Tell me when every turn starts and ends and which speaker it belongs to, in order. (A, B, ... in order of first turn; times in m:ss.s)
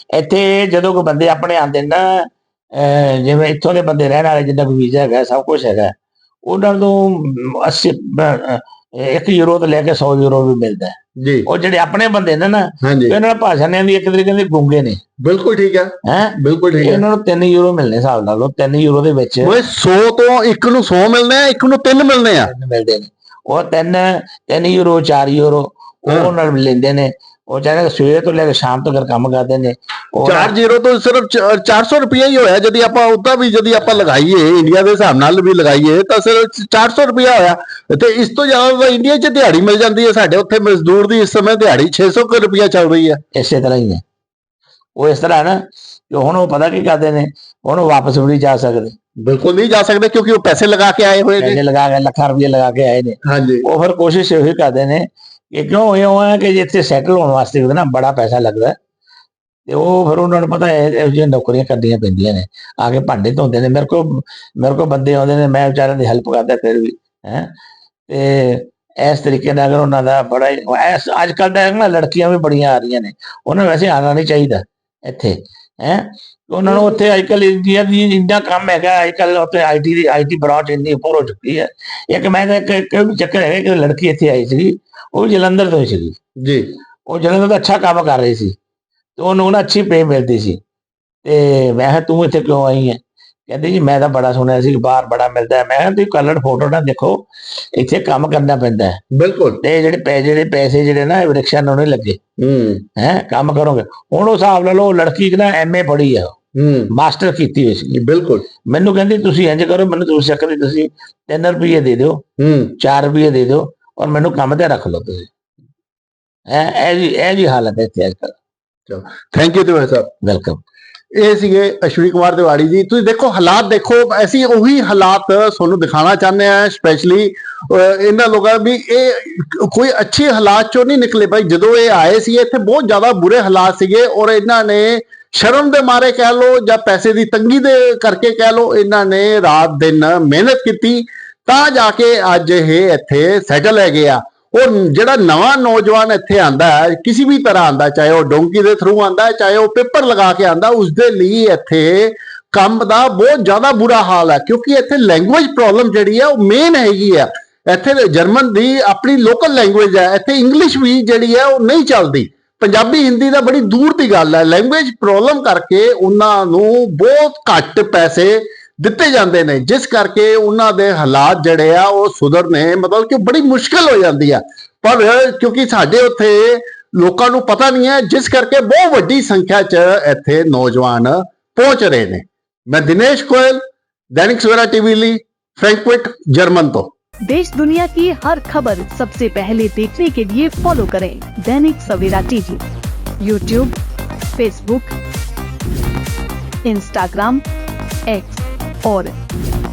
0:00.1-0:15.0 A
0:11.2-0:11.5 B
0:12.8-0:13.2 B
0:15.2-0:17.0 B
0:16.0-0:19.6 A
0:19.4-0:22.5 B
0:22.4-0:30.5 A
0:30.2-0:43.2 B
0:43.3-0:44.0 A
0:45.0-0:49.0 A
0:49.2-0:51.6 B
0:51.4-0:58.8 A
0:53.2-0:53.6 B
0:59.7-1:07.5 A
1:08.1-1:26.2 A
1:26.4-1:26.7 B
1:27.0-1:28.6 A
1:29.2-1:30.6 A
1:31.2-1:39.0 A
1:39.1-1:39.6 B
1:39.6-1:42.2 A
1:42.4-1:42.8 B
1:43.0-1:46.4 A
1:46.5-1:46.9 B
1:46.9-1:47.9 A
1:47.9-1:48.5 B
1:48.6-1:52.2 A
1:52.4-1:52.7 B
1:52.8-1:55.3 A
1:56.5-1:58.3 A
1:58.9-2:00.1 B
2:00.2-2:00.6 A
2:01.1-3:06.9 B
3:07.2-3:12.6 C
3:13.2-3:13.7 C
3:14.4-3:14.9 C
3:16.6-3:17.4 C
3:18.1-3:19.1 C